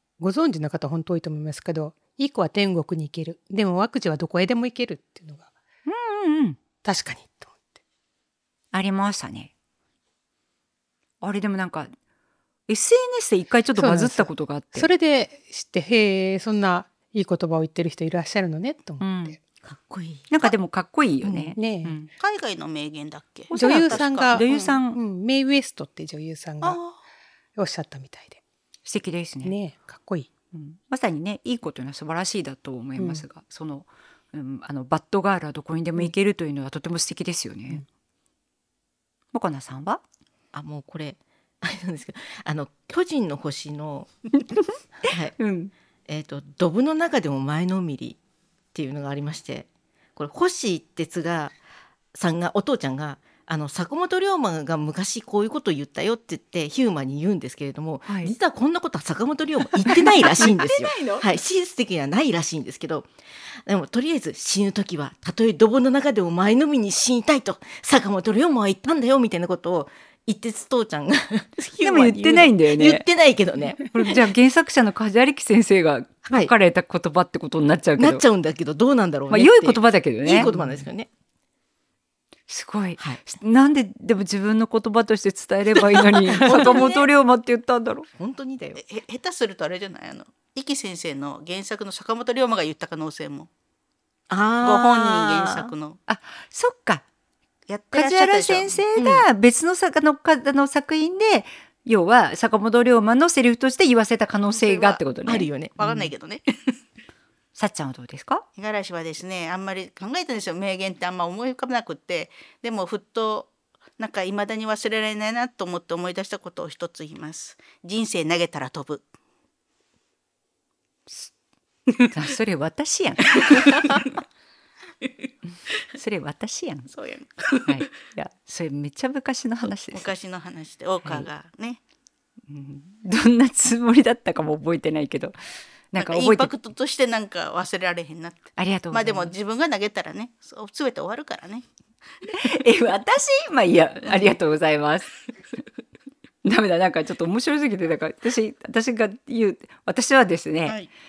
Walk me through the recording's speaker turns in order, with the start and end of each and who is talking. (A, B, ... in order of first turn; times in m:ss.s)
0:00.2-0:05.5 A
0:05.8-0:06.6 B
0:06.8-0:07.8 A
0:08.7-0:09.5 B
0:11.2-0:11.9 B
0:12.7-0:14.9 B
0:13.8-0:19.4 A
0:19.0-0:19.4 B
0:19.6-0:20.3 C
0:20.3-0:22.1 B
0:21.2-0:21.6 C
0:21.6-0:22.0 A
0:22.2-0:24.8 D
0:23.5-0:25.0 B
0:23.5-0:26.8 A
0:26.6-0:27.0 D
0:27.6-0:28.4 A
0:28.9-0:29.6 B
0:29.4-0:30.3 A
0:30.5-0:37.8 B
0:39.3-0:40.0 B
0:40.5-0:44.1 C
0:45.0-0:45.3 C
0:45.1-0:45.7 B
0:46.1-0:48.2 C
0:48.7-0:51.5 C
0:52.1-1:14.3 C
0:58.1-0:58.3 B
0:59.8-1:01.3 B
1:11.8-1:13.1 B
1:13.8-1:18.2 B
1:18.0-1:21.1 C
1:19.3-1:20.5 B
1:22.5-1:28.1 B
1:25.8-1:27.0 C
1:26.4-1:27.0 D
1:28.2-1:28.8 C
1:28.8-1:33.5 D
1:34.3-1:35.7 C
1:34.6-1:36.0 D
1:36.1-1:37.0 B
1:37.7-1:38.8 D
1:37.9-1:45.5 B
1:39.0-1:39.2 C
1:44.5-1:45.0 D
1:45.3-1:46.1 C
1:45.8-1:46.4 D
1:47.6-1:48.4 B
1:48.6-1:59.1 D
2:02.1-2:04.0 B
2:03.4-2:04.1 D
2:05.9-2:06.9 B
2:06.9-2:07.8 D
2:07.6-2:10.1 B
2:09.9-2:11.8 D
2:12.5-2:15.4 B
2:15.9-2:16.5 B
2:16.0-2:21.7 D
2:18.6-2:19.4 B
2:22.3-2:25.1 B
2:26.4-2:30.8 B